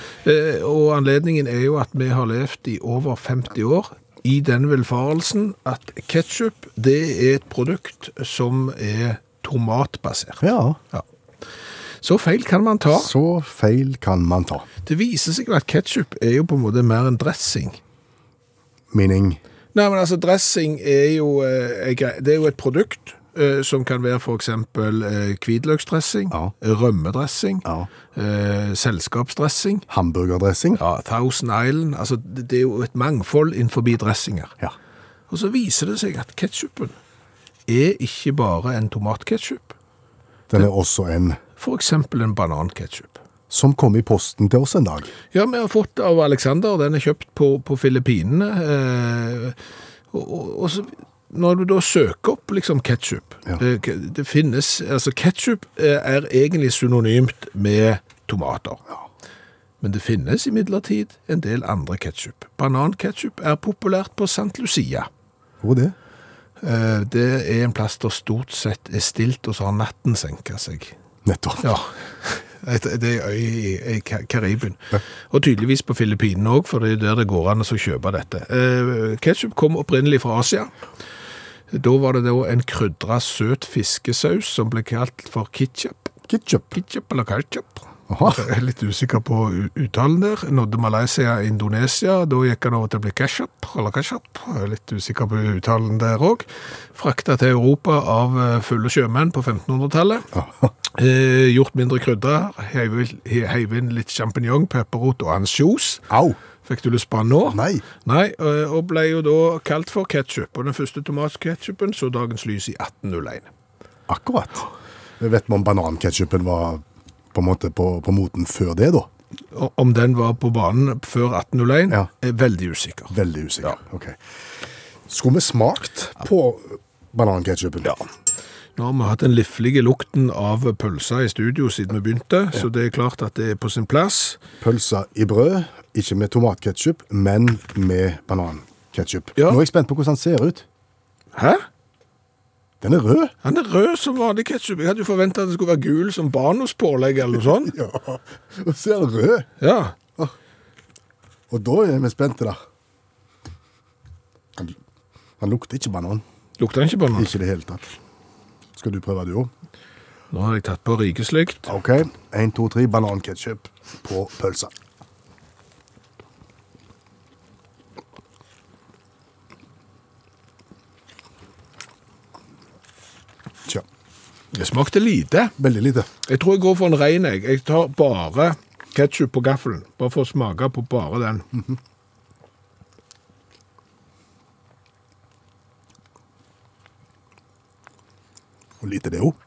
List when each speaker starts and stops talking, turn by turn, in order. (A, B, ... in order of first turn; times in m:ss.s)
0:00.2-0:11.0 A
0:10.4-0:10.8 B
0:12.0-0:13.1 A
0:12.9-0:14.7 B
0:14.8-0:17.8 A
0:18.9-0:19.4 B
0:19.7-0:29.9 A
0:29.9-0:30.8 B
0:30.8-0:34.6 A
0:35.3-0:37.0 A
0:37.7-0:39.8 A
0:40.5-0:41.4 B
0:41.6-0:43.2 A
0:43.5-0:45.1 B
0:45.3-0:49.6 A
0:50.1-0:58.8 A
0:59.8-1:05.1 A
1:05.6-1:06.0 B
1:06.6-1:10.9 A
1:11.2-1:11.7 B
1:11.6-1:20.7 A
1:21.7-1:26.1 A
1:26.3-1:26.7 B
1:26.7-1:40.3 A
1:28.1-1:28.5 B
1:40.3-1:40.7 B
1:40.9-1:46.1 A
1:46.1-1:46.4 B
1:46.6-1:53.5 A
1:47.5-1:47.8 B
1:54.1-1:54.7 B
1:55.2-1:56.8 B
1:57.3-1:59.1 B
1:59.5-2:03.8 A
2:03.1-2:04.2 B
2:05.1-2:07.9 B
2:08.8-2:14.4 A
2:14.6-2:20.6 B
2:21.3-2:21.7 A
2:22.8-2:23.3 B
2:23.4-2:27.8 A
2:27.7-2:29.5 B
2:29.6-2:30.0 A
2:31.5-2:32.6 B
2:35.4-2:36.2 B
2:36.6-2:37.3 A
2:37.2-2:37.9 B
2:38.8-2:39.5 B
2:40.3-2:41.7 A
2:41.7-2:44.7 B
2:54.5-2:55.6 A
2:55.6-2:56.1 B
2:56.2-3:01.5 A
3:08.8-3:09.4 B